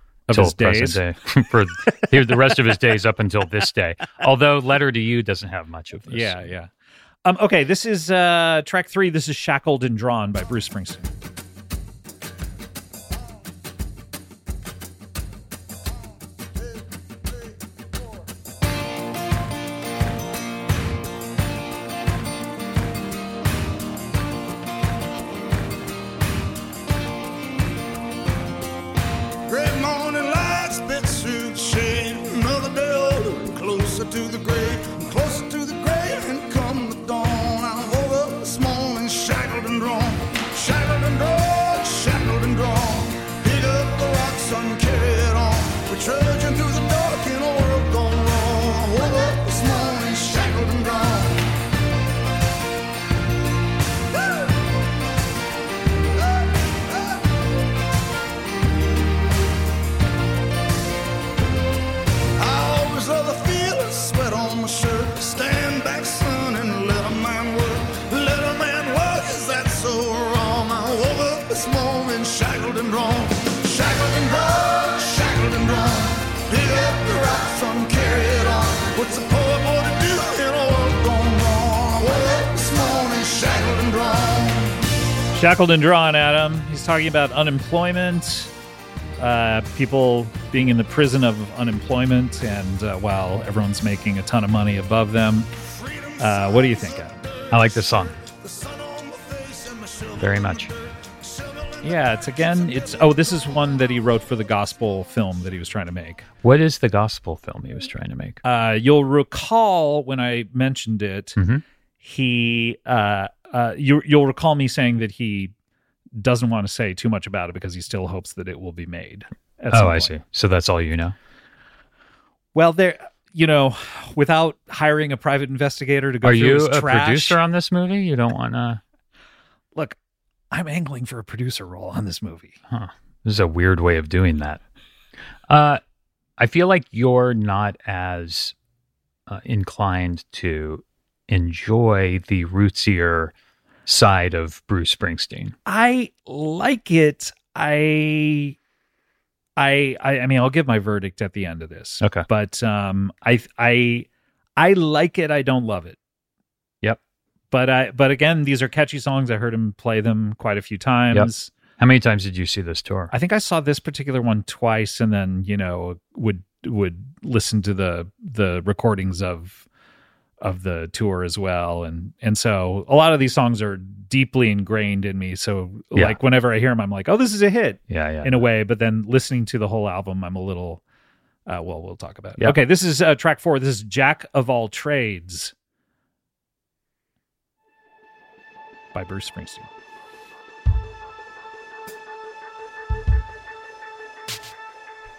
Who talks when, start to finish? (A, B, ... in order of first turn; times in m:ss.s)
0:00.3-0:01.0 A
0:00.3-0:06.4 B
0:01.8-0:02.7 A
0:06.1-0:06.7 A
0:07.2-0:11.1 A
0:29.5-0:51.5 C
0:56.5-0:56.9 C
1:02.4-1:24.8 C
1:25.3-1:28.5 A
1:29.2-1:35.5 A
1:35.7-1:42.1 C
1:36.2-1:37.2 A
1:37.5-1:38.2 B
1:40.2-1:40.7 B
1:41.8-1:46.2 A
1:46.4-1:48.4 B
1:48.4-1:51.4 A
1:51.4-1:51.6 B
1:52.0-1:55.5 A
1:56.2-2:00.1 A
1:59.7-2:01.1 B
2:02.5-2:07.4 A
2:06.2-2:08.8 B
2:10.5-2:12.6 A
2:12.7-2:14.6 B
2:15.5-2:15.8 B
2:16.4-2:18.5 B
2:19.3-2:23.3 B
2:23.8-2:25.5 B
2:25.6-2:28.6 A
2:29.6-2:36.0 A
2:37.5-2:41.5 A
2:41.1-2:43.1 B
2:43.1-2:49.6 A
2:50.4-3:00.8 A
2:57.9-2:58.4 B
3:01.5-3:05.5 A
3:08.9-3:09.7 A